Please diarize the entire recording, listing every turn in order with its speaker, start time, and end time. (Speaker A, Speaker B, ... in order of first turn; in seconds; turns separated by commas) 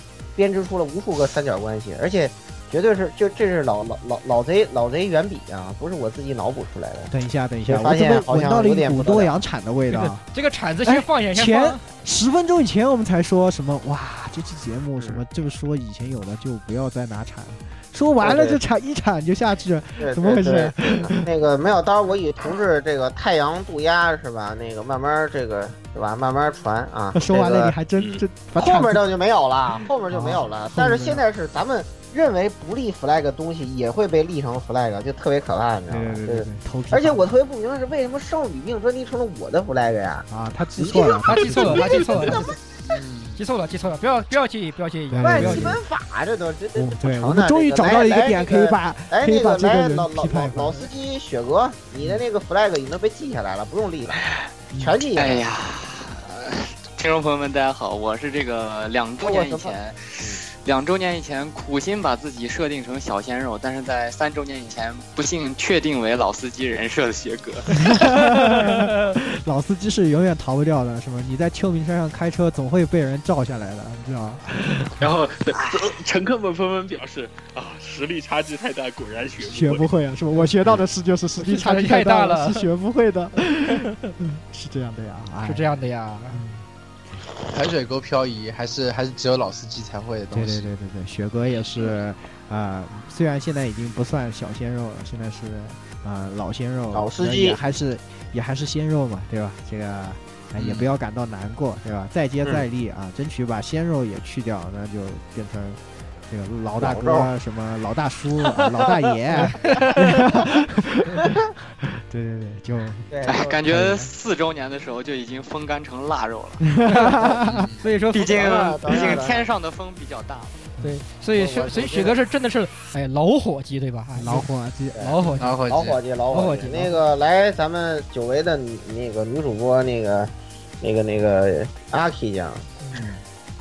Speaker A: 0.4-7.1, Speaker B: 7.1-10.2, Speaker A: 7.7-9.3, Speaker C: 9.9-11.8, Speaker B: 10.8-21.2, Speaker A: 18.2-18.6, Speaker A: 20.0-27.7, Speaker B: 27.1-29.0, Speaker D: 28.0-28.2, Speaker A: 28.6-42.6, Speaker B: 30.1-31.2, Speaker B: 35.9-37.3, Speaker B: 40.3-42.5, Speaker C: 41.2-42.6, Speaker E: 42.9-43.4, Speaker C: 43.4-45.8, Speaker B: 45.1-45.8, Speaker A: 45.2-54.2, Speaker B: 46.8-50.9, Speaker B: 54.7-55.0, Speaker A: 54.8-55.4, Speaker F: 55.2-68.0, Speaker A: 59.2-60.4, Speaker B: 67.8-75.1, Speaker D: 75.0-79.9, Speaker F: 75.5-75.8, Speaker B: 79.4-85.7, Speaker C: 81.4-82.7, Speaker C: 85.5-86.4, Speaker B: 86.3-86.7, Speaker E: 87.5-90.7, Speaker B: 90.3-113.1, Speaker A: 96.9-97.6, Speaker E: 100.6-100.9, Speaker A: 106.8-107.3, Speaker A: 113.1-113.9, Speaker F: 113.3-116.6, Speaker B: 113.7-114.0, Speaker B: 116.6-117.7, Speaker C: 116.9-117.3, Speaker E: 117.4-117.8, Speaker C: 117.8-118.4, Speaker F: 118.1-120.7, Speaker A: 118.2-119.5, Speaker C: 120.8-125.5, Speaker A: 121.3-122.2, Speaker B: 124.1-125.4, Speaker E: 125.4-126.0, Speaker A: 125.7-130.3, Speaker C: 126.3-127.0, Speaker A: 130.8-132.7, Speaker B: 132.9-133.2